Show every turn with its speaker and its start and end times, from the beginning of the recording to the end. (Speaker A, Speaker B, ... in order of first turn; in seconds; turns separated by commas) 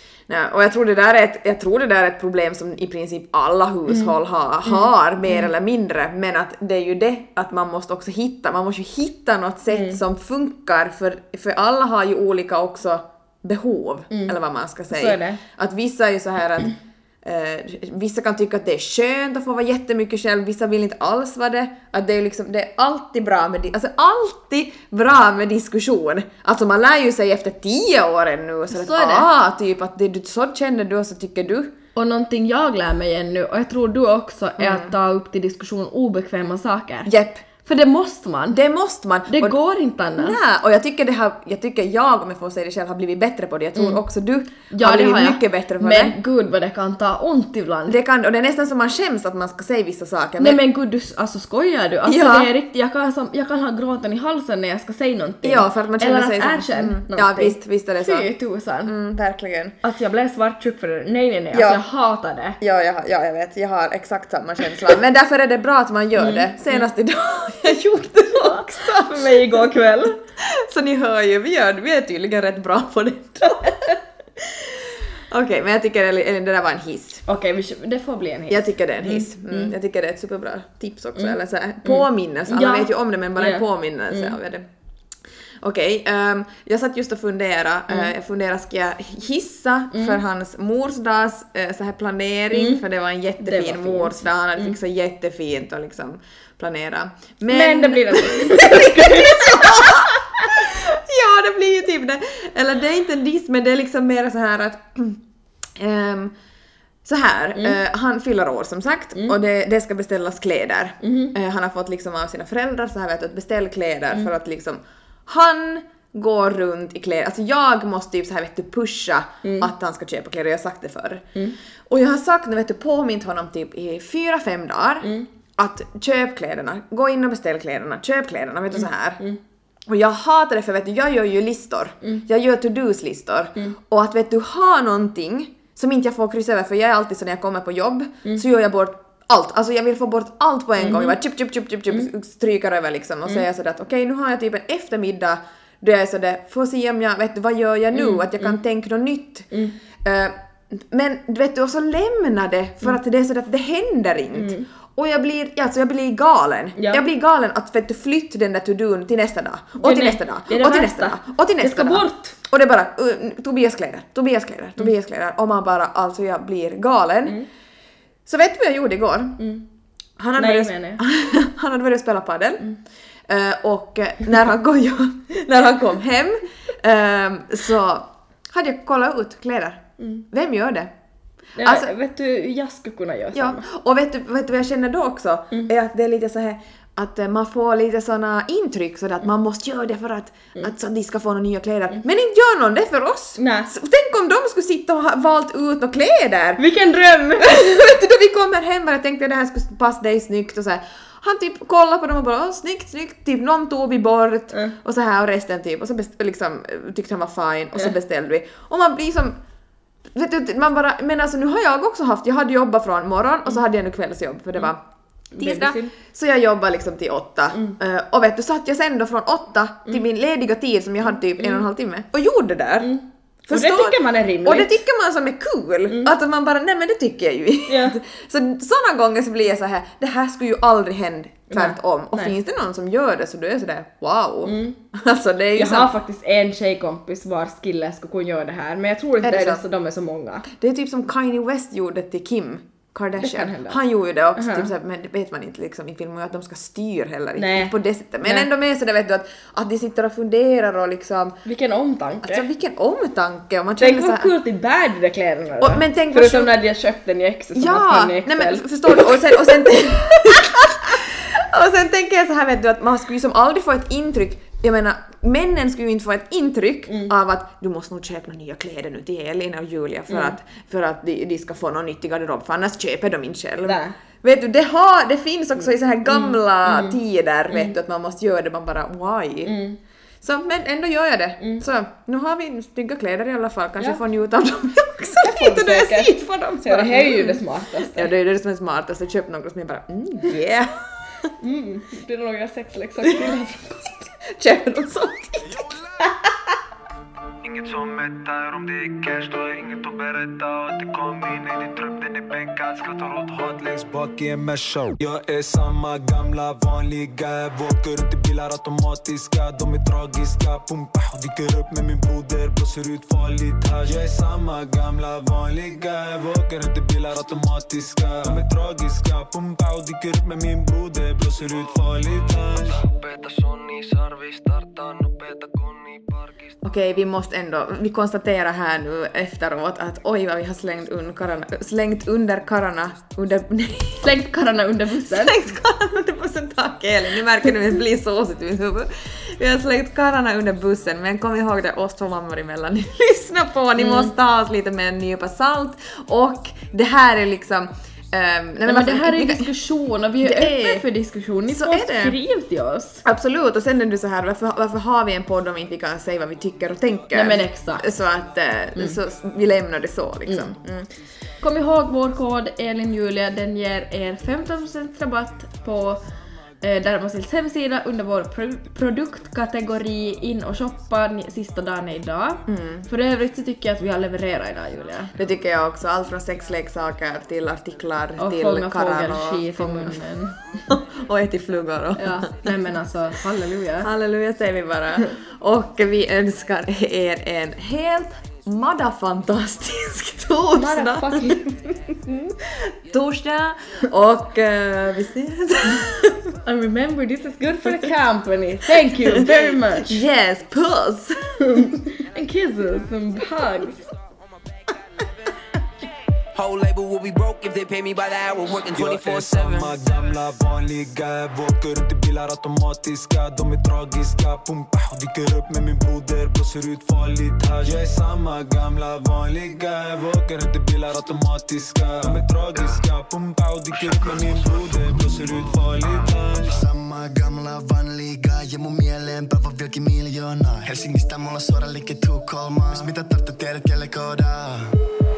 Speaker A: 0.3-31.7, Speaker B: 4.7-5.5, Speaker B: 9.7-10.0, Speaker B: 14.9-15.4, Speaker B: 28.7-29.3, Speaker B: 31.9-37.1, Speaker A: 34.6-34.9, Speaker A: 37.1-37.4, Speaker B: 37.6-38.6, Speaker A: 38.5-39.6, Speaker B: 39.3-40.4, Speaker A: 40.2-46.1, Speaker B: 43.8-44.0, Speaker B: 44.7-48.0, Speaker A: 47.9-50.6, Speaker B: 50.4-58.9, Speaker A: 52.1-52.5, Speaker A: 55.4-58.3, Speaker A: 58.9-59.8, Speaker B: 59.8-62.6, Speaker A: 61.5-61.8, Speaker A: 62.6-69.2, Speaker B: 66.2-66.8, Speaker B: 68.3-70.2, Speaker A: 70.5-73.9, Speaker A: 75.3-77.2, Speaker B: 77.3-79.7, Speaker A: 78.5-84.7, Speaker B: 81.2-84.4, Speaker A: 85.6-105.2, Speaker B: 89.9-90.2, Speaker B: 92.5-92.8, Speaker B: 93.4-94.8, Speaker B: 97.5-100.5, Speaker A: 105.8-106.3, Speaker A: 107.0-121.3, Speaker B: 111.0-111.3, Speaker B: 119.4-119.7, Speaker A: 121.9-129.2, Speaker B: 128.7-129.4, Speaker A: 129.9-149.5, Speaker B: 140.8-141.1, Speaker B: 147.9-148.6, Speaker B: 149.5-149.8, Speaker A: 150.0-167.4, Speaker B: 154.3-154.7, Speaker B: 156.8-157.0, Speaker B: 159.8-162.4, Speaker A: 168.3-169.4, Speaker B: 169.4-169.6, Speaker A: 170.2-172.6, Speaker B: 170.4-171.0, Speaker A: 173.3-180.9, Speaker B: 180.0-180.2, Speaker B: 181.6-183.6, Speaker A: 181.6-181.9, Speaker A: 183.3-196.6, Speaker B: 193.4-193.7, Speaker B: 196.6-197.6, Speaker A: 197.4-209.4, Speaker A: 210.1-214.8, Speaker B: 215.4-215.9, Speaker A: 215.4-222.9, Speaker B: 221.4-221.6, Speaker B: 222.8-224.7, Speaker A: 223.5-235.9, Speaker B: 227.7-228.0, Speaker B: 231.5-232.3, Speaker B: 234.4-234.8, Speaker B: 235.6-240.4, Speaker A: 239.2-239.6, Speaker A: 240.5-251.4, Speaker B: 243.2-243.8, Speaker B: 244.4-244.7, Speaker B: 247.4-247.7, Speaker B: 251.4-252.4, Speaker A: 252.2-254.3, Speaker B: 253.8-260.4, Speaker A: 255.6-256.5, Speaker A: 257.6-279.6, Speaker B: 270.1-270.4, Speaker B: 273.6-273.9, Speaker B: 276.1-277.0, Speaker B: 279.4-279.8, Speaker A: 280.2-287.4, Speaker B: 285.2-288.1, Speaker A: 287.9-290.7, Speaker B: 291.4-294.1, Speaker A: 293.0-293.3, Speaker A: 294.4-295.7, Speaker C: 297.4-322.9, Speaker C: 324.6-325.6, Speaker A: 326.6-334.1, Speaker B: 334.0-335.4, Speaker A: 335.1-349.5, Speaker B: 343.8-344.1, Speaker B: 348.7-353.0, Speaker A: 350.2-350.9, Speaker A: 351.5-352.2, Speaker A: 353.0-360.9, Speaker B: 357.1-357.9, Speaker B: 360.3-360.6, Speaker B: 361.4-366.0, Speaker B: 366.6-375.1, Speaker A: 372.5-372.9, Speaker A: 375.1-380.0, Speaker B: 378.2-380.6, Speaker A: 380.7-382.4, Speaker B: 382.0-383.9, Speaker A: 383.8-392.1, Speaker B: 390.6-391.5, Speaker A: 392.8-396.2, Speaker B: 396.4-400.0, Speaker A: 399.1-401.7, Speaker B: 401.5-403.8, Speaker D: 406.3-409.8, Speaker C: 408.6-426.6, Speaker E: 426.4-434.7